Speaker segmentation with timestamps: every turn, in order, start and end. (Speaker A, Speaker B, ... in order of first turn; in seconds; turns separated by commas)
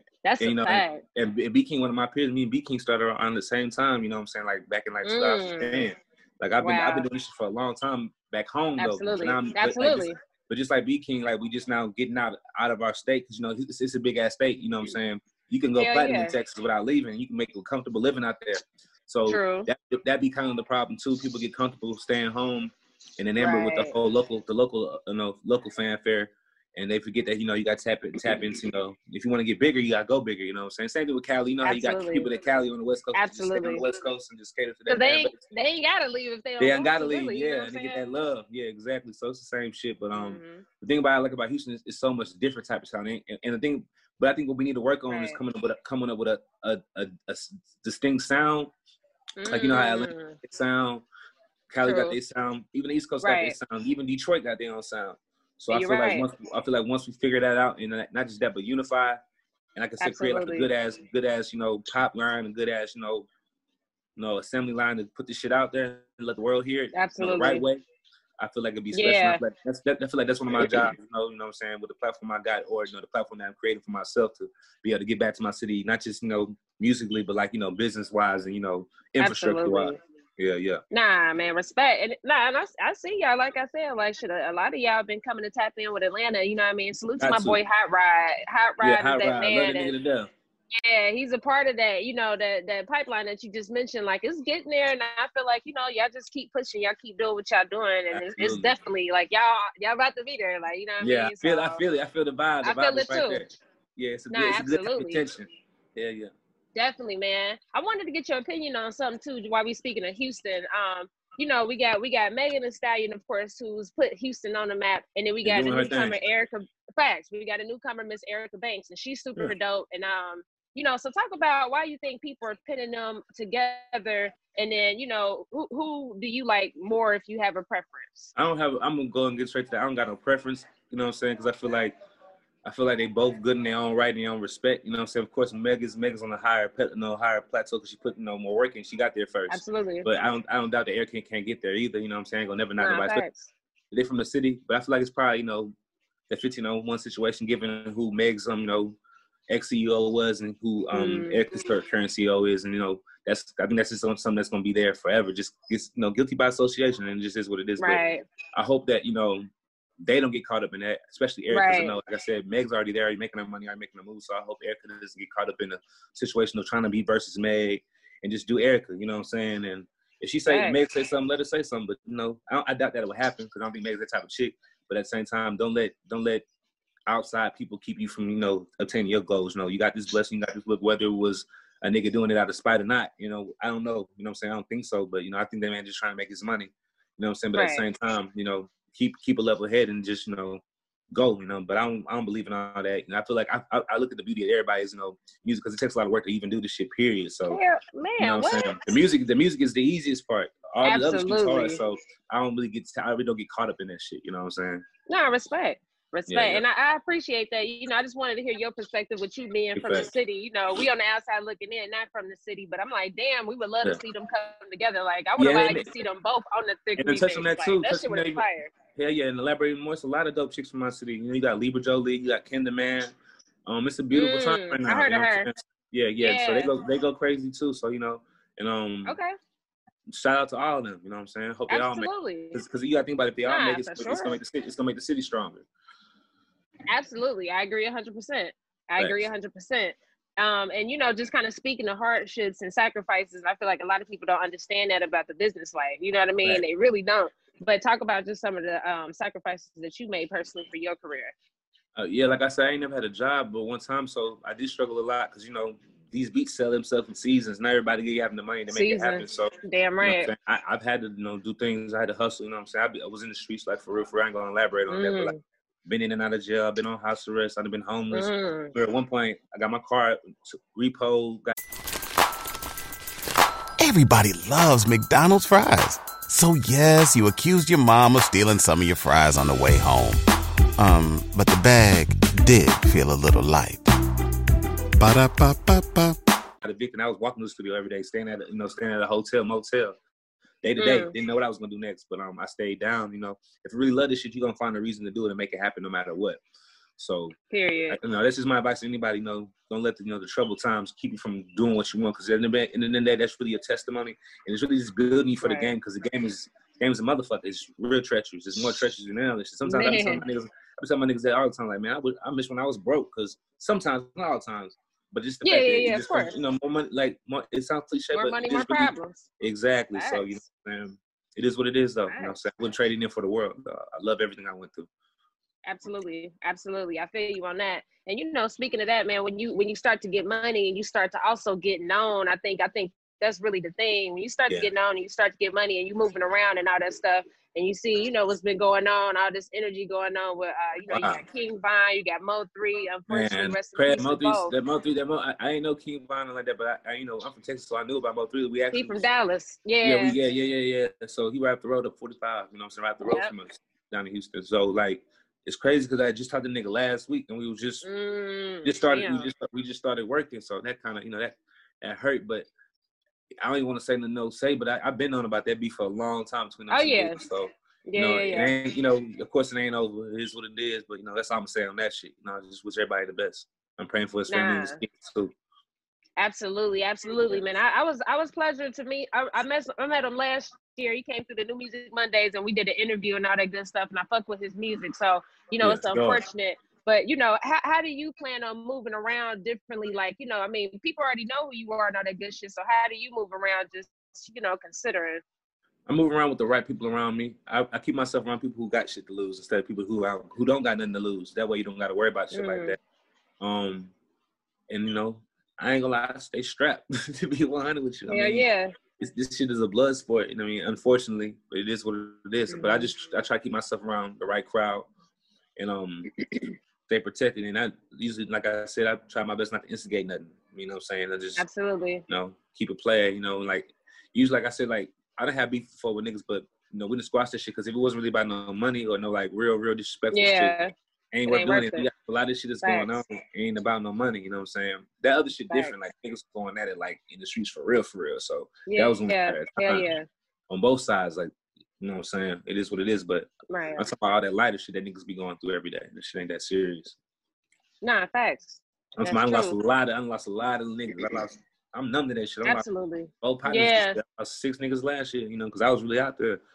Speaker A: 0.2-1.0, Speaker B: 0.4-35.3, Speaker A: 5.0-5.9, Speaker A: 6.6-7.0, Speaker A: 8.8-10.1, Speaker A: 15.8-16.3, Speaker A: 19.3-19.7, Speaker A: 23.4-23.9, Speaker A: 31.6-32.3, Speaker A: 33.1-33.8, Speaker A: 34.9-38.0, Speaker B: 36.6-48.7, Speaker A: 40.1-40.6, Speaker A: 45.1-45.4, Speaker A: 49.4-50.4, Speaker B: 49.5-51.0, Speaker B: 51.7-59.2, Speaker A: 51.8-52.1, Speaker A: 53.2-53.5, Speaker A: 55.7-56.3, Speaker B: 59.7-63.3, Speaker A: 60.0-60.7, Speaker B: 64.2-67.8, Speaker A: 66.9-67.6, Speaker B: 68.4-80.8, Speaker A: 68.9-69.4, Speaker A: 70.5-70.9, Speaker A: 79.2-80.0, Speaker A: 80.9-89.9, Speaker B: 87.2-87.6, Speaker B: 88.8-90.3, Speaker A: 90.8-101.8, Speaker B: 98.1-98.7, Speaker B: 101.0-106.3, Speaker A: 102.6-103.4, Speaker A: 104.3-105.2, Speaker A: 106.7-128.3, Speaker B: 115.4-116.2, Speaker B: 128.3-131.9, Speaker B: 132.6-143.2, Speaker A: 139.5-140.1, Speaker A: 142.8-143.5, Speaker B: 143.9-145.7, Speaker B: 146.3-149.0, Speaker B: 149.5-158.0, Speaker A: 150.9-151.4, Speaker A: 157.8-158.2, Speaker B: 158.5-159.5, Speaker B: 160.0-176.4, Speaker A: 161.5-161.9, Speaker A: 170.5-170.8, Speaker B: 177.1-197.6, Speaker A: 187.5-187.8, Speaker A: 197.5-198.7, Speaker B: 198.2-204.8, Speaker A: 200.8-201.8, Speaker A: 205.1-218.7, Speaker B: 206.3-206.6, Speaker B: 209.7-210.1, Speaker B: 215.4-215.9, Speaker B: 217.0-223.1, Speaker B: 223.7-229.2, Speaker A: 224.1-225.5, Speaker A: 226.2-226.7, Speaker A: 229.1-229.3, Speaker B: 230.1-235.7, Speaker A: 231.7-232.6, Speaker A: 233.4-234.4, Speaker A: 236.9-251.3, Speaker B: 239.0-239.2, Speaker B: 251.9-265.3, Speaker A: 258.7-260.3, Speaker A: 264.9-265.4, Speaker B: 265.9-271.5, Speaker A: 268.1-268.7, Speaker C: 273.8-280.2, Speaker C: 280.8-283.9, Speaker C: 285.0-286.2, Speaker B: 286.6-289.9, Speaker B: 290.6-296.4, Speaker A: 290.8-291.1, Speaker B: 297.0-297.3, Speaker A: 297.5-298.0, Speaker B: 297.9-324.9, Speaker A: 305.4-305.7, Speaker A: 309.6-310.2, Speaker A: 315.4-316.3, Speaker A: 318.1-319.2, Speaker A: 319.9-320.4, Speaker A: 322.1-322.4, Speaker A: 325.6-344.5, Speaker B: 340.9-341.2, Speaker B: 343.1-349.0, Speaker A: 348.7-350.1, Speaker B: 349.8-357.9, Speaker A: 353.0-353.3, Speaker A: 357.8-359.3, Speaker B: 358.6-362.5, Speaker B: 363.4-375.3, Speaker A: 366.7-367.2, Speaker A: 367.9-368.5, Speaker A: 374.3-374.8, Speaker A: 376.2-395.2, Speaker B: 385.6-386.2, Speaker B: 395.9-402.8, Speaker A: 402.3-402.8, Speaker B: 403.4-403.9, Speaker B: 404.7-408.4, Speaker A: 408.1-408.7, Speaker B: 409.0-414.9, Speaker A: 412.5-412.9, Speaker B: 415.6-416.2, Speaker B: 416.9-421.4, Speaker A: 421.4-422.0, Speaker B: 422.1-430.6, Speaker A: 430.1-430.7, Speaker B: 431.1-439.9, Speaker A: 431.2-431.9, Speaker A: 432.6-433.0, Speaker A: 438.7-440.1, Speaker B: 440.5-446.9, Speaker A: 443.5-443.8, Speaker A: 447.8-449.6, Speaker B: 449.0-452.6, Speaker A: 452.4-454.0, Speaker B: 453.2-456.4